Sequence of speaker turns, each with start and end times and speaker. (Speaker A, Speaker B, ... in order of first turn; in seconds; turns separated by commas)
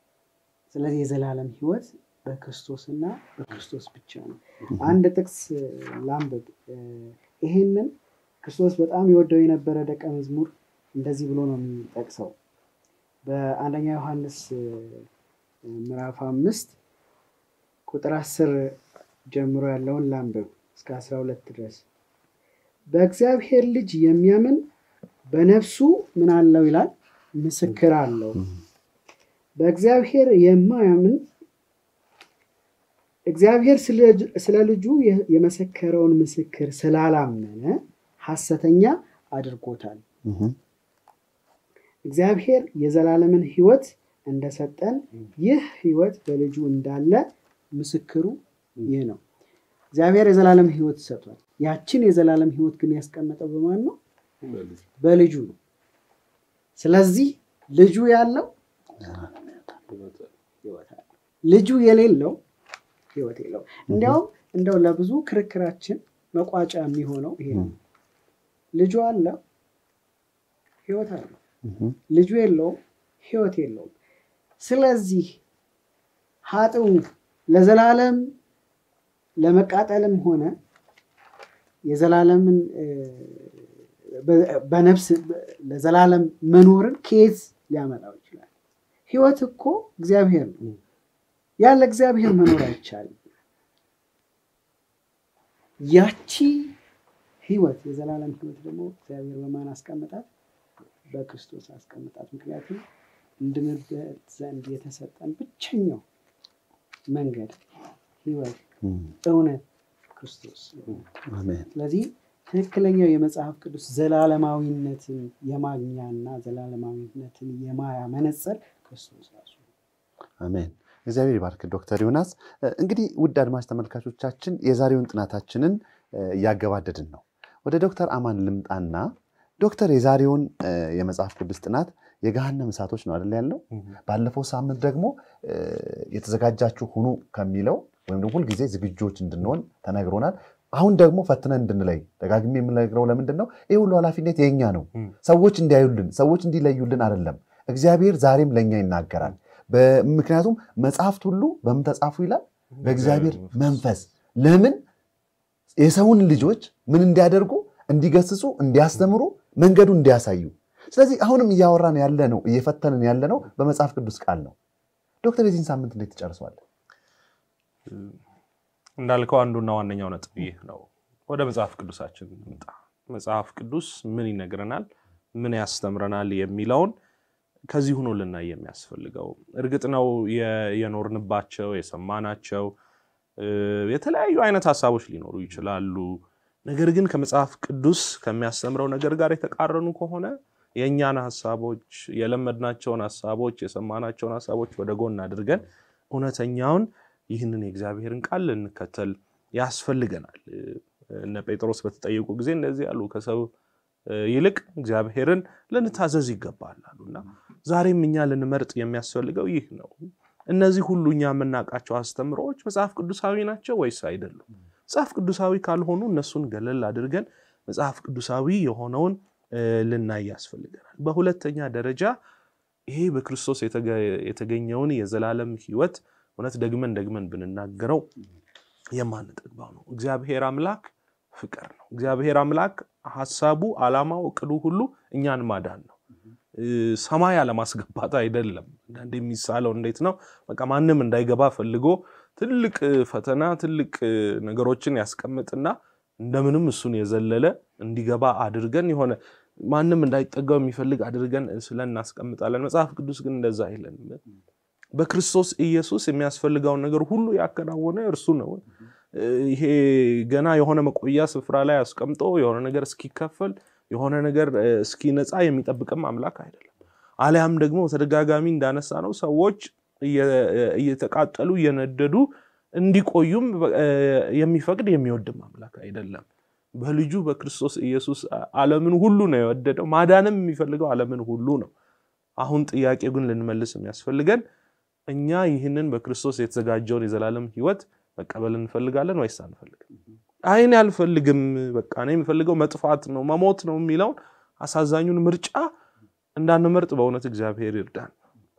Speaker A: 0.7-12.3, Speaker A: 13.2-15.1, Speaker A: 15.7-16.8, Speaker A: 17.9-18.8, Speaker A: 19.3-21.9, Speaker A: 22.9-24.6, Speaker A: 25.3-28.4, Speaker A: 29.6-31.2, Speaker A: 33.3-40.0, Speaker B: 40.3-40.5, Speaker A: 42.1-49.2, Speaker A: 49.9-54.0, Speaker C: 54.5-54.8, Speaker A: 55.0-55.6, Speaker A: 56.8-58.5, Speaker C: 59.9-60.3, Speaker A: 60.6-62.4, Speaker A: 63.1-67.8, Speaker A: 68.8-69.4, Speaker A: 70.9-71.4, Speaker B: 71.7-71.9, Speaker A: 72.1-73.9, Speaker A: 74.6-75.4, Speaker A: 76.5-78.3, Speaker A: 79.4-80.5, Speaker A: 81.9-88.5, Speaker A: 89.1-90.6, Speaker A: 91.6-93.2, Speaker A: 95.8-96.8, Speaker A: 97.4-100.3, Speaker A: 101.1-102.8, Speaker A: 103.4-106.0, Speaker A: 107.1-107.6, Speaker A: 108.2-108.6, Speaker A: 109.2-109.6, Speaker A: 110.2-111.1, Speaker B: 111.3-111.7, Speaker A: 111.7-119.7, Speaker B: 120.4-129.1, Speaker B: 129.6-154.8, Speaker C: 152.8-153.7, Speaker B: 155.8-164.6, Speaker B: 165.2-166.6, Speaker C: 167.9-168.2, Speaker C: 169.0-176.9, Speaker C: 177.7-182.7, Speaker C: 183.4-203.5, Speaker C: 204.1-222.2, Speaker C: 222.9-228.1, Speaker C: 228.9-236.0, Speaker C: 236.6-254.2, Speaker C: 255.0-276.2, Speaker C: 276.8-281.7, Speaker C: 282.4-284.4, Speaker C: 285.1-289.9, Speaker C: 290.5-295.7, Speaker C: 296.4-298.1